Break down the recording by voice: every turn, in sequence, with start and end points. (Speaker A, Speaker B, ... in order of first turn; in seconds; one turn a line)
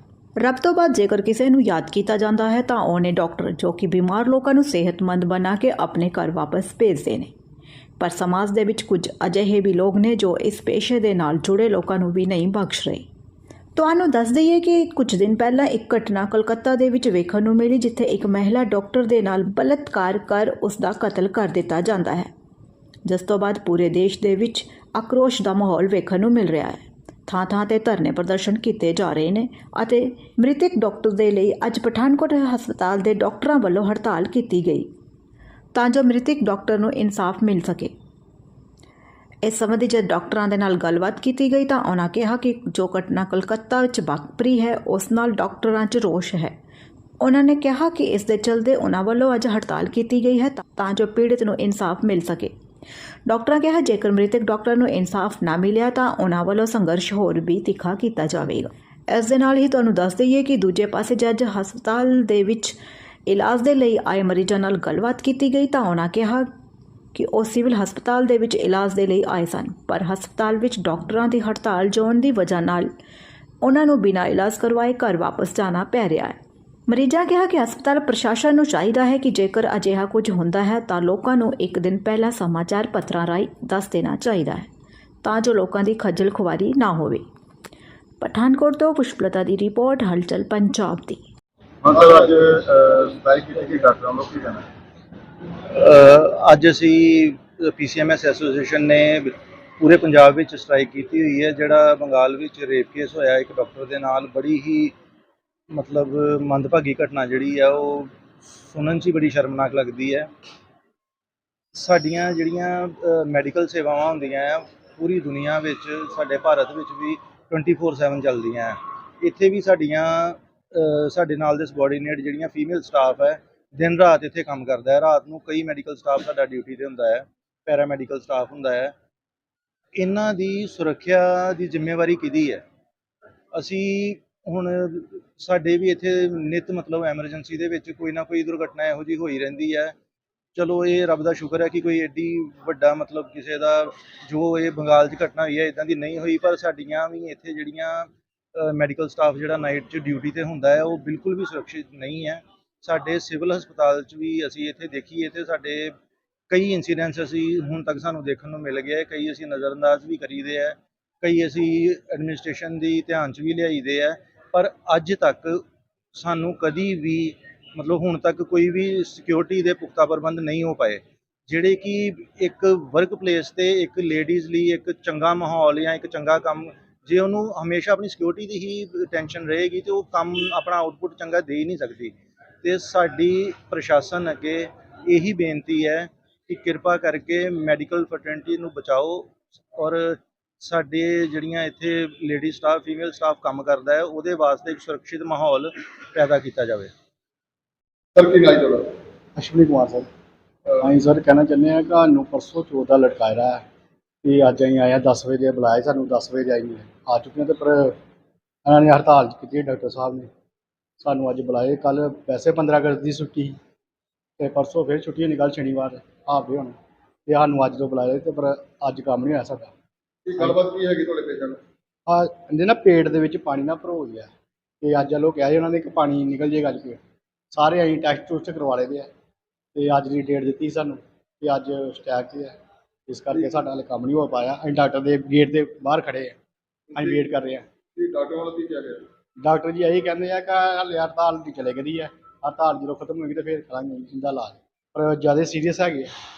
Speaker A: 0.4-7.3
Speaker A: 8.0-13.1
Speaker A: 13.8-22.3
Speaker A: 23.0-34.9
Speaker A: 35.7-37.9
Speaker A: 39.4-46.5
Speaker A: 47.2-52.5
Speaker A: 53.3-62.8
Speaker A: 63.3-66.5
Speaker A: 67.1-72.9
Speaker A: 73.6-84.7
Speaker A: 85.2-87.2
Speaker A: 88.2-91.2
Speaker B: 91.8-94.6
Speaker C: 91.9-92.2
Speaker C: 93.5-94.4
Speaker B: 95.7-104.9
Speaker B: 105.7-110.3
Speaker B: 111.7-128.9
Speaker B: 129.9-132.6
Speaker B: 133.5-139.9
Speaker B: 140.5-155.9
Speaker B: 156.5-196.9
Speaker C: 198.2-198.9
Speaker D: 199.3-200.1
Speaker D: 200.8-203.6
Speaker D: 204.2-207.9
Speaker D: 208.6-210.3
Speaker D: 211.0-213.6
Speaker D: 214.4-216.7
Speaker D: 217.2-219.7
Speaker C: 220.3-221.6
Speaker D: 220.4-220.6
Speaker D: 222.1-224.3
Speaker D: 224.8-227.0
Speaker D: 227.5-229.1
Speaker D: 229.7-232.6
Speaker D: 233.1-236.3
Speaker D: 236.9-237.7
Speaker C: 237.9-239.1
Speaker D: 239.4-246.1